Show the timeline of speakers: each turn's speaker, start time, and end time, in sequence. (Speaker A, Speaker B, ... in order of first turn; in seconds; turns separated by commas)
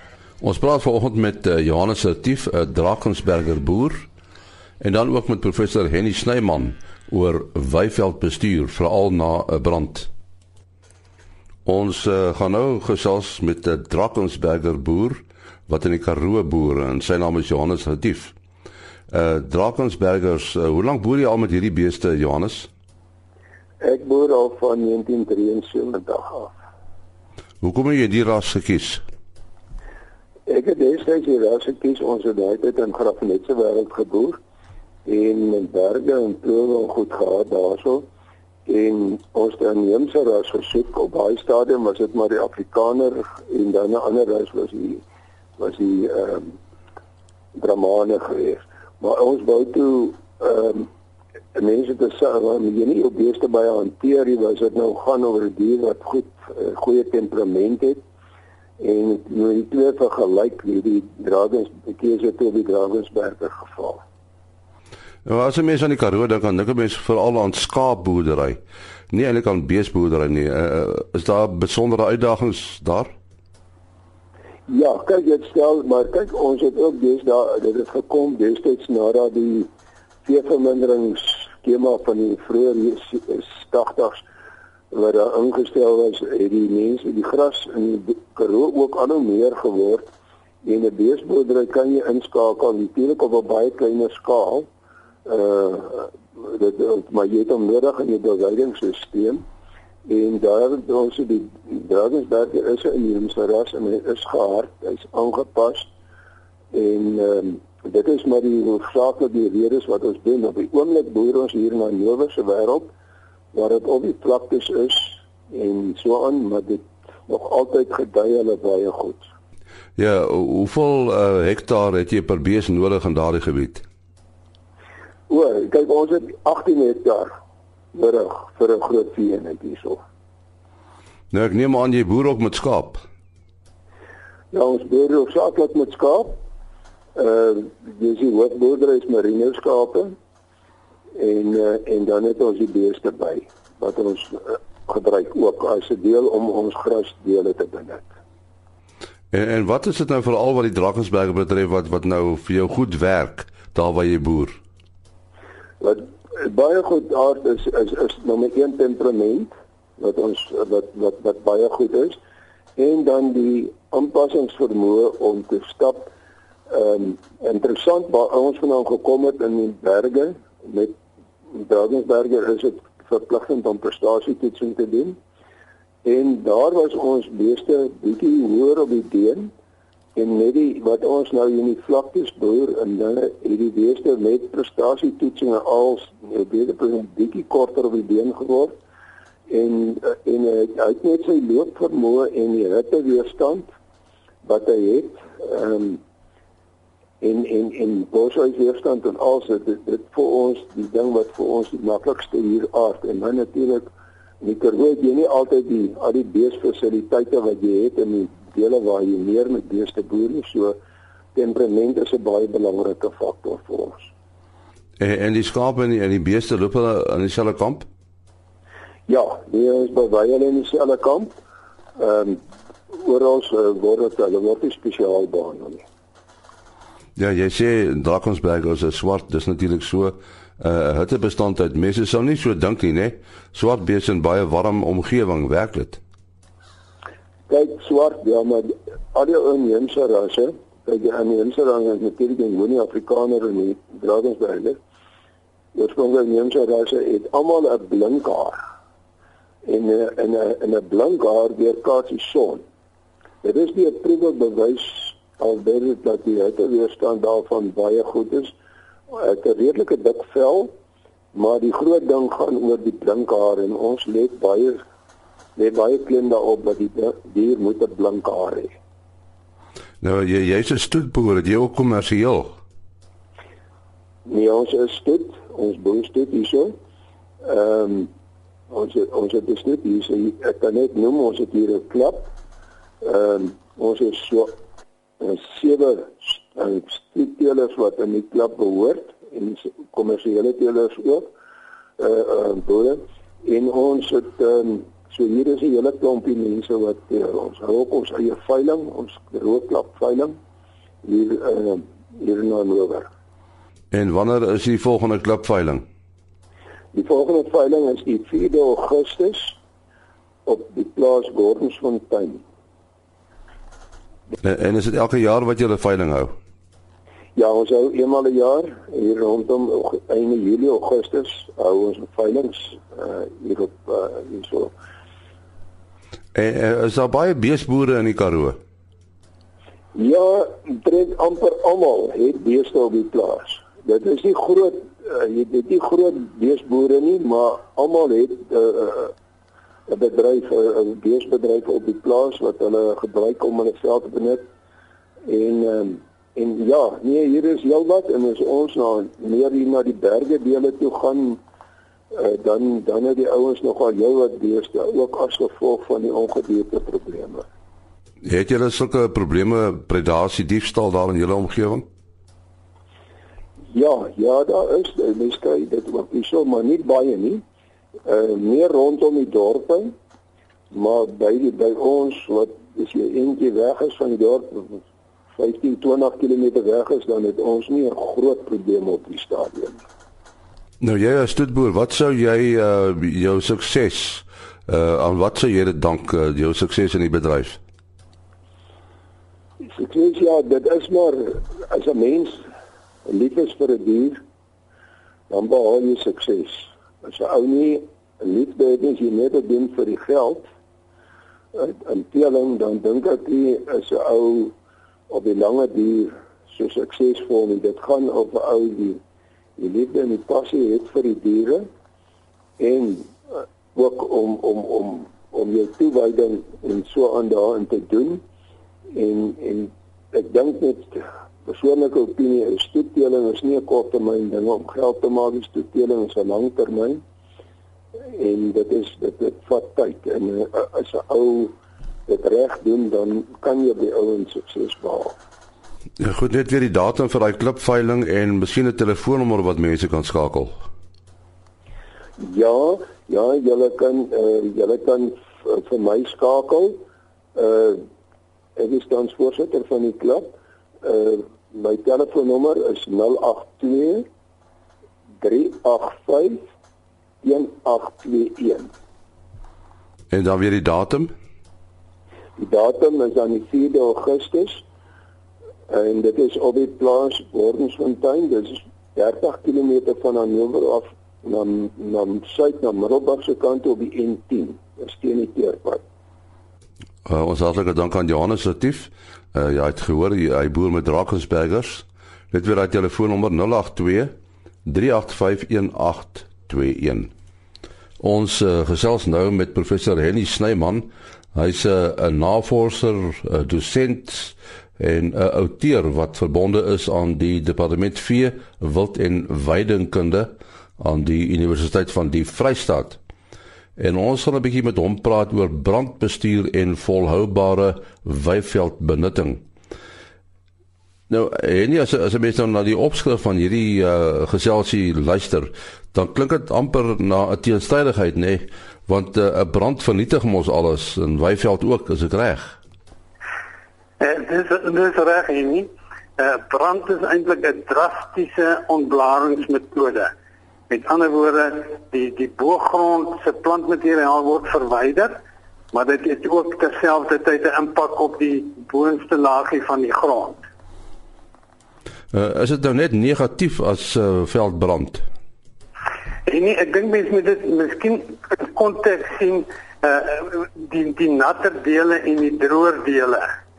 Speaker A: 0.4-4.1, Speaker A: 4.8-10.1, Speaker A: 11.6-18.3, Speaker A: 19.1-22.7, Speaker B: 23.8-26.5, Speaker A: 27.6-29.0, Speaker B: 30.5-34.4, Speaker B: 35.0-38.0, Speaker B: 38.7-45.0, Speaker B: 45.6-46.5, Speaker B: 47.6-50.9, Speaker B: 51.5-58.0, Speaker B: 58.8-64.0, Speaker A: 65.2-68.6, Speaker A: 69.1-73.1, Speaker B: 74.7-79.7, Speaker B: 80.2-84.2, Speaker B: 84.9-90.1, Speaker B: 90.6-94.7, Speaker B: 95.2-99.4, Speaker B: 100.1-105.9, Speaker B: 106.7-112.9, Speaker B: 113.5-119.3, Speaker A: 120.0-123.8, Speaker B: 125.3-127.3, Speaker B: 127.9-130.0, Speaker A: 131.3-133.0, Speaker B: 134.5-136.4, Speaker B: 137.2-140.1, Speaker B: 141.2-148.1, Speaker A: 149.3-154.6, Speaker B: 155.8-162.2, Speaker B: 162.8-166.1, Speaker B: 166.7-171.0, Speaker B: 171.5-175.2, Speaker B: 176.0-179.5, Speaker B: 180.2-188.8, Speaker B: 189.5-193.7, Speaker B: 194.4-196.0, Speaker B: 197.2-203.8, Speaker B: 204.4-210.8, Speaker B: 211.3-214.1, Speaker A: 215.0-217.9, Speaker B: 219.1-221.3, Speaker B: 222.0-222.4, Speaker B: 222.9-225.8, Speaker A: 227.2-236.0, Speaker B: 237.5-244.8, Speaker B: 245.8-248.6, Speaker B: 249.7-252.6, Speaker B: 253.4-258.5, Speaker B: 259.1-260.7, Speaker B: 261.3-264.8, Speaker B: 265.6-268.8, Speaker A: 270.0-272.5, Speaker B: 274.3-276.7, Speaker B: 277.4-278.1, Speaker B: 278.7-282.3, Speaker B: 283.0-284.6, Speaker B: 285.2-291.3, Speaker B: 292.0-300.4, Speaker B: 301.1-303.1, Speaker A: 303.9-305.8, Speaker B: 306.9-309.6, Speaker B: 310.4-312.4, Speaker A: 314.4-316.3, Speaker B: 317.4-324.7, Speaker A: 326.4-328.6, Speaker B: 329.9-339.1, Speaker B: 339.9-344.4, Speaker B: 345.2-351.4, Speaker B: 352.1-357.4, Speaker A: 358.2-361.8, Speaker B: 363.7-367.4, Speaker B: 368.1-369.9, Speaker B: 370.7-374.8, Speaker B: 375.4-379.8, Speaker A: 380.8-387.6, Speaker B: 389.7-392.4, Speaker B: 393.1-394.2, Speaker B: 395.3-400.5, Speaker B: 401.5-404.5, Speaker B: 405.1-409.0, Speaker B: 409.6-411.6, Speaker B: 412.6-413.1, Speaker B: 413.7-418.2, Speaker B: 418.9-427.0, Speaker B: 428.1-431.5, Speaker B: 432.1-435.1, Speaker A: 436.0-440.5, Speaker B: 442.2-446.8, Speaker B: 447.4-447.8, Speaker B: 448.6-454.0, Speaker B: 455.2-456.4, Speaker B: 457.2-458.7, Speaker A: 460.1-461.1, Speaker B: 462.4-464.6, Speaker B: 465.7-475.8, Speaker A: 477.1-484.1, Speaker A: 484.6-487.1, Speaker A: 488.0-503.0, Speaker A: 503.8-509.4, Speaker A: 511.1-522.5, Speaker C: 524.0-530.1, Speaker C: 530.7-535.1, Speaker C: 535.7-540.4, Speaker A: 542.1-545.0, Speaker C: 546.2-553.2